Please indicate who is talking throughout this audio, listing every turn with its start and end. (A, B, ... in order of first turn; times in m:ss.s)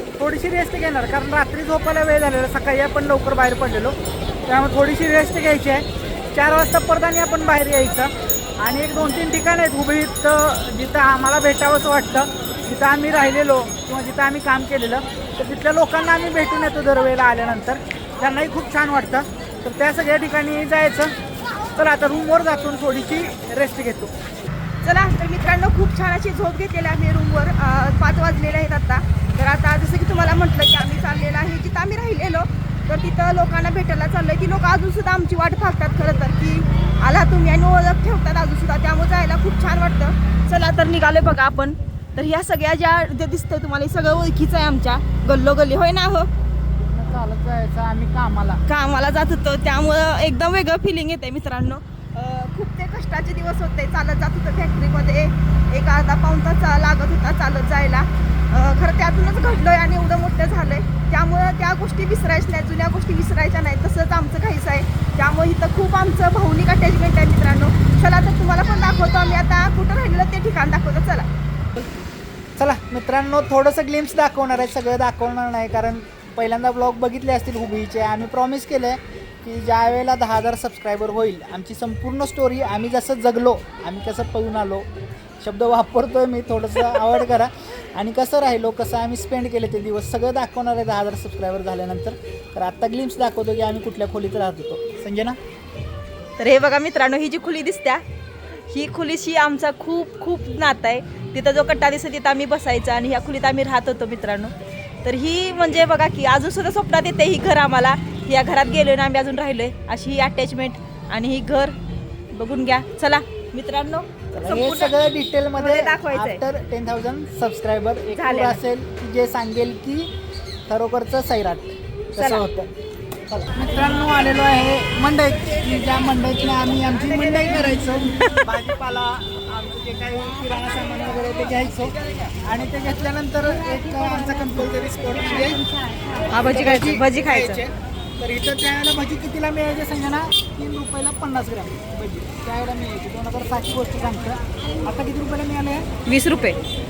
0:00.2-0:21.1 A
0:21.8-0:24.1 A
0:24.8-0:46.3 B
0:46.9-0:48.6 A
0:48.7-1:11.3 B
1:12.6-1:24.9 A
1:25.4-1:35.4 A
1:36.4-1:38.0 B
1:38.7-1:44.5 B
1:45.0-1:51.7 B
1:52.3-1:54.9 B
1:54.3-2:00.1 A
1:55.6-1:56.4 B
1:58.1-1:58.6 B
2:00.7-2:02.7 A
2:02.2-2:02.4 B
2:03.3-2:15.6 A
2:14.0-2:14.5 B
2:15.4-2:17.6 B
2:16.4-2:25.9 A
2:26.0-2:26.6 B